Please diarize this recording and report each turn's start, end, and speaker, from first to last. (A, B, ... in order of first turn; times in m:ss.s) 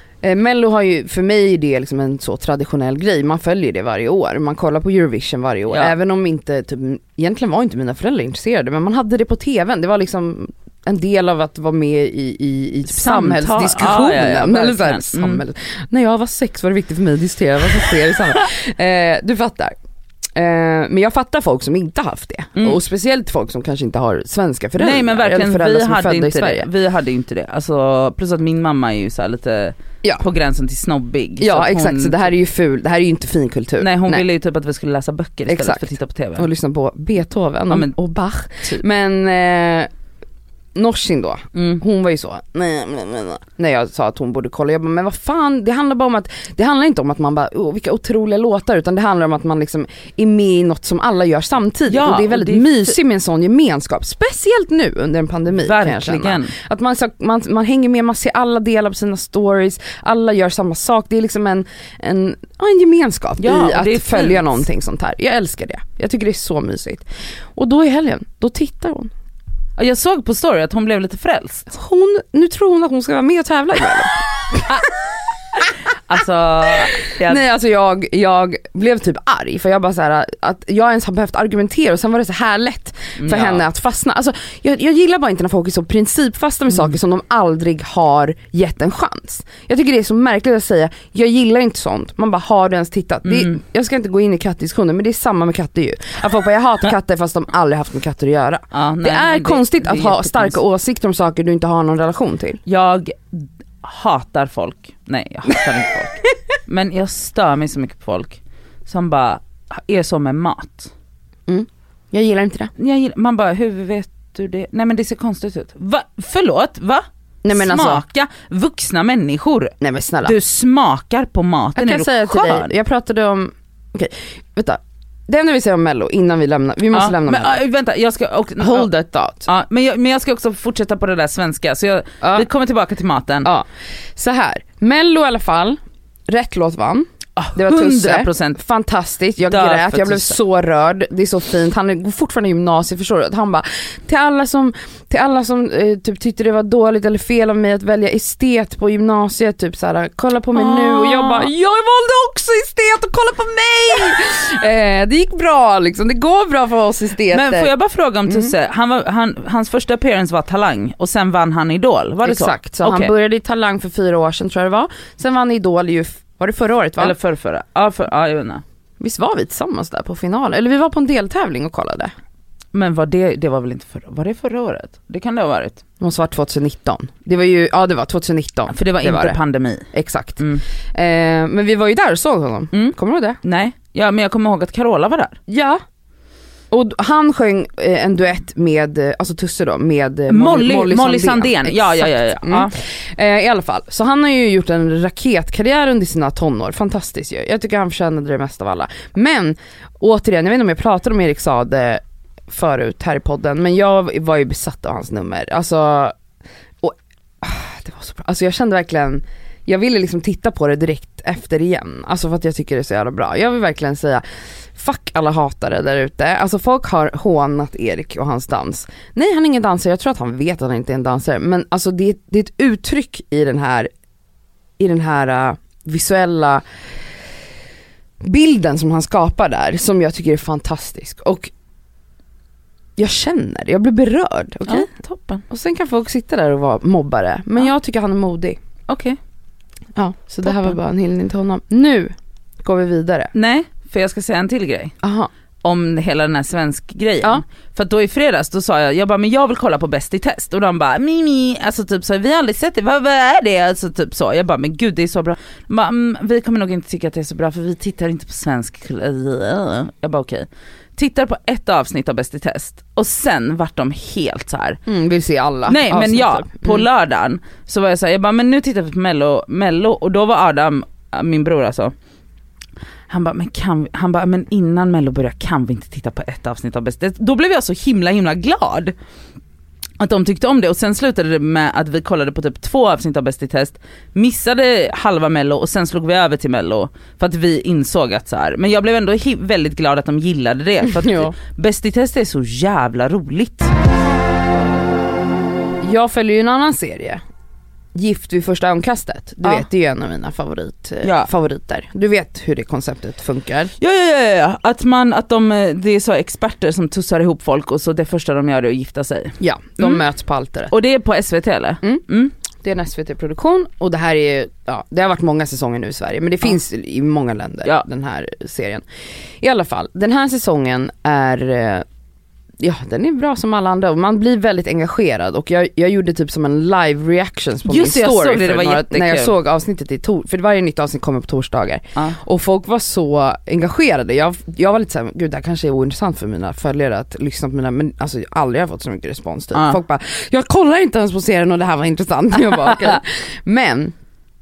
0:00.2-0:19.7 A
0:12.9-0:15.4 B
0:20.4-0:26.7 A
0:24.8-0:32.3 B
0:31.4-0:34.2 A
0:33.8-0:36.5 B
0:35.5-0:39.9 A
0:40.7-1:09.1 A
0:41.5-0:41.8 B
0:51.9-0:53.0 B
0:55.6-0:56.5 B
1:03.4-1:04.6 B
1:09.8-1:11.7 B
1:11.7-1:14.7 A
1:15.9-1:17.4 B
1:17.2-1:42.6 A
1:23.2-1:23.6 B
1:33.2-1:33.6 B
1:38.7-1:40.6 B
1:42.6-1:50.9 B
1:51.5-1:52.7 A
1:52.8-2:02.7 B
1:57.4-1:58.0 A
1:59.8-2:00.4 A
2:01.8-2:07.6 A
2:06.9-2:08.9 B
2:08.6-2:09.5 A
2:09.4-2:13.5 B
2:12.2-2:12.5 A
2:13.4-2:37.7 A
2:17.4-2:18.6 B
2:19.4-2:20.4 B
2:30.5-2:31.5 B
2:37.3-2:43.1 B
2:38.3-2:38.5 A
2:42.2-2:47.1 A
2:47.0-2:48.6 B
2:49.0-2:52.1 A
2:52.7-2:55.8 B
2:56.0-2:59.4 A
2:58.7-3:00.6 B
2:59.9-3:03.4 A
3:02.7-3:05.4 B
3:05.5-3:05.8 A
3:06.7-3:26.1 A
3:10.3-3:12.8 B
3:26.8-3:34.2 A
3:34.8-3:43.9 A
3:44.8-3:46.6 A
3:48.2-3:51.5 A
3:53.0-3:54.9 A
3:54.6-3:55.4 B
3:55.5-3:58.6 A
3:58.9-3:59.2 B
4:00.0-4:03.3 A
4:00.4-4:00.8 B
4:03.3-4:04.9 B
4:05.0-4:05.3 A
4:05.6-4:24.8 B
4:24.9-4:26.8 A
4:25.7-4:31.9 B
4:33.1-4:38.9 B
4:40.0-4:53.7 B
4:50.9-4:51.3 A
4:55.8-4:57.2 A
4:57.9-5:03.7 A
5:01.0-5:01.3 B
5:03.8-5:10.0 B
5:09.4-5:10.7 A
5:10.7-5:12.3 B
5:12.6-5:18.8 A
5:19.4-5:21.8 A
5:22.6-5:43.9 A
5:27.7-5:29.3 B
5:39.5-5:39.8 B